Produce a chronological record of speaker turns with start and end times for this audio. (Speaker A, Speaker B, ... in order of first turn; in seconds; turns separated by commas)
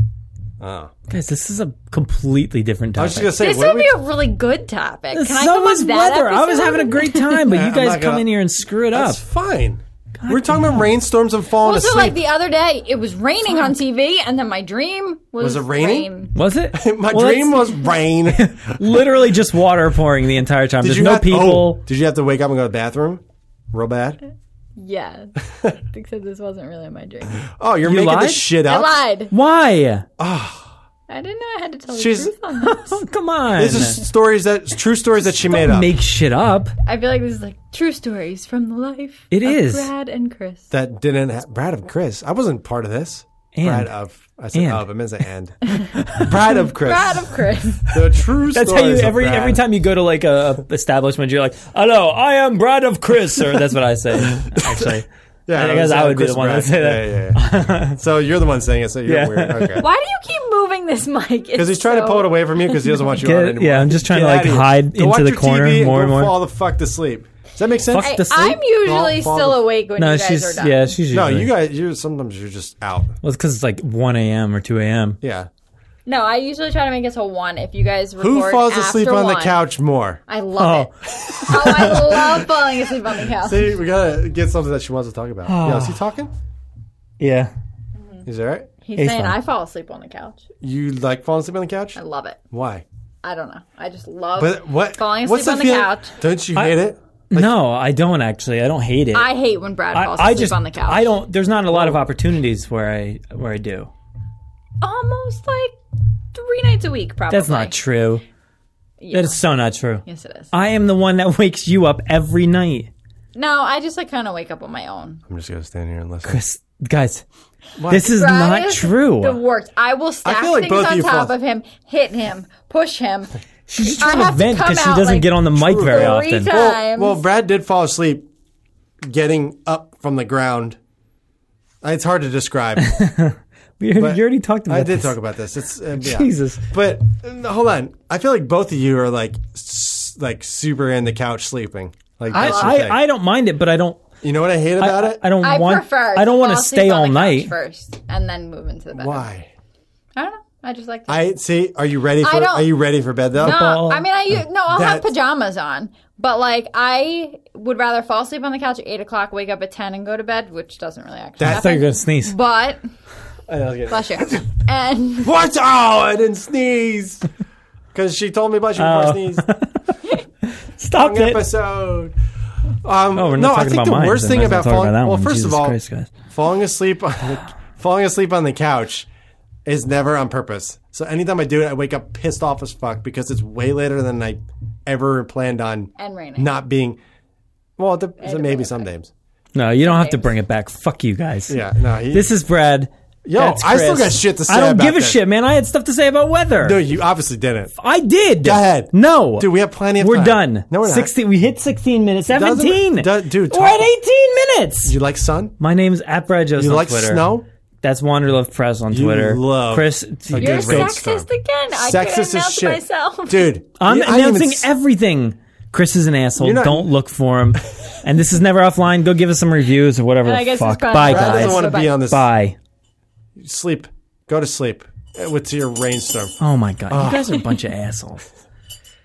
Speaker A: 0.6-0.9, Speaker B: 1.1-3.4, Speaker A: 3.0-4.0, Speaker C: 3.4-7.4, Speaker B: 5.1-9.2, Speaker A: 7.5-8.2, Speaker A: 8.9-12.2, Speaker B: 10.2-10.8, Speaker C: 11.6-16.4, Speaker A: 15.4-16.1, Speaker B: 16.4-21.8, Speaker A: 16.7-19.1, Speaker A: 20.8-24.2, Speaker C: 24.8-25.4, Speaker C: 25.9-27.4, Speaker A: 27.4-29.0, Speaker B: 27.8-28.5, Speaker C: 28.6-29.3, Speaker B: 29.3-30.1, Speaker A: 30.2-30.7, Speaker C: 31.1-33.0, Speaker A: 31.9-32.4, Speaker B: 32.5-34.0, Speaker A: 33.6-36.0, Speaker B: 35.5-36.7, Speaker C: 36.8-40.7, Speaker B: 39.3-39.9, Speaker A: 40.7-45.6, Speaker B: 43.5-43.9, Speaker B: 44.5-44.9, Speaker B: 45.9-46.5, Speaker A: 46.1-47.3, Speaker C: 46.7-48.0, Speaker A: 47.9-49.6, Speaker B: 48.5-58.0, Speaker A: 54.4-59.9, Speaker B: 59.1-59.8, Speaker C: 59.8-63.1, Speaker A: 61.6-68.2, Speaker B: 63.2-66.3, Speaker B: 67.9-68.6, Speaker C: 68.0-70.9, Speaker A: 68.8-69.6, Speaker B: 70.0-71.5, Speaker A: 71.1-73.2, Speaker B: 73.2-75.2, Speaker A: 75.2-75.5, Speaker C: 76.1-79.6, Speaker A: 78.2-80.2, Speaker C: 80.3-80.9, Speaker B: 80.6-82.3, Speaker C: 81.5-83.7, Speaker A: 81.6-82.5, Speaker A: 83.4-86.3, Speaker B: 85.5-86.0, Speaker B: 87.2-87.5, Speaker A: 88.3-88.7, Speaker C: 88.8-90.4, Speaker B: 89.0-89.4, Speaker A: 90.6-92.0, Speaker C: 92.0-92.4, Speaker A: 92.5-92.8, Speaker C: 93.2-96.1, Speaker A: 94.4-97.6, Speaker B: 96.5-99.3, Speaker C: 99.1-101.2, Speaker B: 99.9-103.9, Speaker A: 101.7-102.0, Speaker C: 104.8-105.8, Speaker C: 106.3-107.8, Speaker B: 107.3-108.2, Speaker C: 109.0-109.4, Speaker B: 109.1-112.9, Speaker C: 110.0-110.5, Speaker C: 113.3-115.2, Speaker A: 115.3-116.4, Speaker B: 116.2-117.2, Speaker A: 117.8-118.1, Speaker B: 117.9-119.4, Speaker C: 118.0-127.2, Speaker A: 120.2-121.3, Speaker B: 123.7-126.6, Speaker A: 125.5-128.2, Speaker A: 129.0-130.8, Speaker A: 131.8-132.9, Speaker B: 132.8-135.2, Speaker A: 134.0-143.0, Speaker B: 136.0-136.6, Speaker C: 142.3-142.8, Speaker B: 142.3-144.1, Speaker A: 144.2-145.2, Speaker B: 144.8-147.5, Speaker C: 145.4-149.3, Speaker A: 148.9-149.5, Speaker C: 150.2-151.3, Speaker A: 151.1-153.6, Speaker C: 152.2-152.7, Speaker B: 153.4-154.4, Speaker C: 153.4-162.8, Speaker A: 154.7-155.1, Speaker A: 161.4-161.7, Speaker B: 161.4-162.3, Speaker A: 163.5-164.4, Speaker C: 163.9-165.4, Speaker A: 165.2-167.3, Speaker A: 167.9-169.4, Speaker B: 168.8-169.8, Speaker B: 170.5-171.5, Speaker A: 170.9-172.1, Speaker A: 172.8-175.8, Speaker B: 173.1-176.1, Speaker A: 176.3-179.1, Speaker A: 179.7-187.0, Speaker C: 186.0-186.5, Speaker A: 187.8-189.1, Speaker C: 188.2-188.9, Speaker B: 189.5-196.8, Speaker C: 189.8-190.4, Speaker A: 191.5-192.3, Speaker A: 193.2-195.2, Speaker A: 196.6-197.7, Speaker B: 197.8-205.0, Speaker A: 198.4-201.1, Speaker A: 202.3-203.9, Speaker A: 204.8-205.6, Speaker B: 205.6-207.3, Speaker A: 206.6-207.5, Speaker B: 207.8-211.0, Speaker A: 208.9-214.7, Speaker C: 210.3-213.5, Speaker B: 213.8-222.6, Speaker A: 216.4-216.9, Speaker C: 220.2-222.0, Speaker A: 221.0-222.3, Speaker A: 223.4-226.4, Speaker B: 226.4-228.3, Speaker A: 226.9-227.4